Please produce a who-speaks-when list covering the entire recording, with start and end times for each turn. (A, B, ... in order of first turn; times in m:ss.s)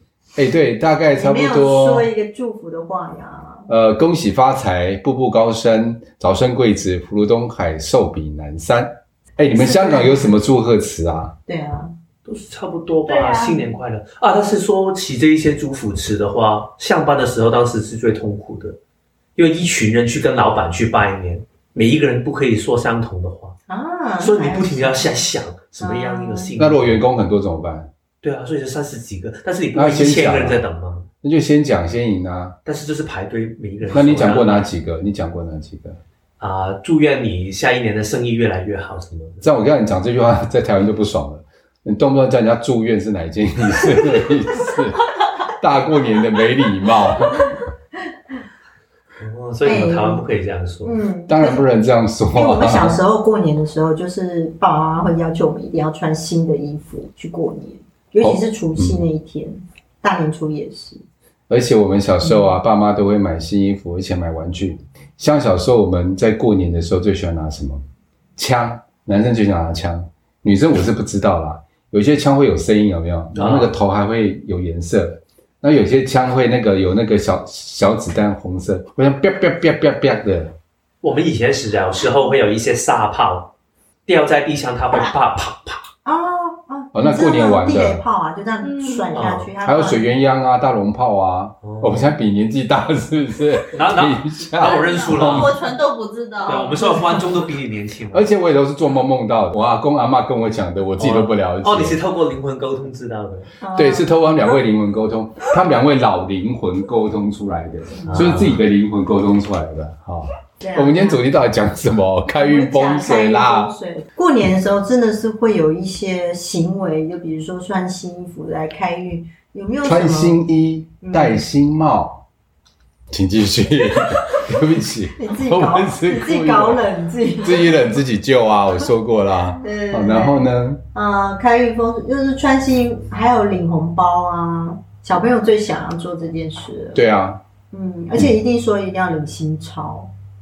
0:00.4-0:02.1 A
0:01.1-0:03.7 B
0:03.7-0:11.4 A
0:09.5-0:10.3 B
0:11.5-0:11.9 B
0:12.2-0:18.8 C
0:13.1-0:13.7 D
0:19.4-0:23.5 C
0:23.7-0:25.2 B
0:24.2-0:27.0 C
0:25.8-0:26.5 B
0:26.6-0:27.9 A
0:28.2-0:31.0 C
0:29.7-0:30.6 A
0:31.2-0:32.6 A
0:32.6-0:34.7 C
0:33.9-0:36.0 A
0:36.4-0:39.5 C
0:39.4-0:45.0 A
0:45.6-0:47.5 A
0:49.2-0:51.0 C
0:49.6-0:50.2 B
0:50.8-0:51.6 B
0:51.3-0:53.0 A
0:52.3-1:01.0 B
0:58.2-0:59.0 A
1:01.5-1:07.8 A
1:02.2-1:02.6 B
1:08.4-1:20.6 A
1:13.3-1:13.8 C
1:21.0-1:23.5 C
1:24.1-1:25.8 C
1:26.0-1:30.1 B
1:26.9-1:28.0 A
1:28.6-1:29.2 D
1:29.1-1:29.5 C
1:29.6-1:35.6 A
1:31.6-1:32.2 C
1:33.7-1:35.6 C
1:34.6-1:37.2 D
1:36.4-1:38.3 C
1:38.1-1:42.0 A
1:41.0-1:43.5 C
1:43.6-1:44.3 B
1:43.7-1:53.7 A
1:48.0-1:48.6 C
1:50.6-1:51.2 B
1:52.3-2:00.4 B
1:59.8-2:02.2 A
2:01.0-2:01.4 B
2:03.1-2:06.9 A
2:05.1-2:07.9 B
2:07.4-2:10.8 A
2:09.6-2:17.0 B
2:16.9-2:17.4 A
2:17.7-2:20.1 B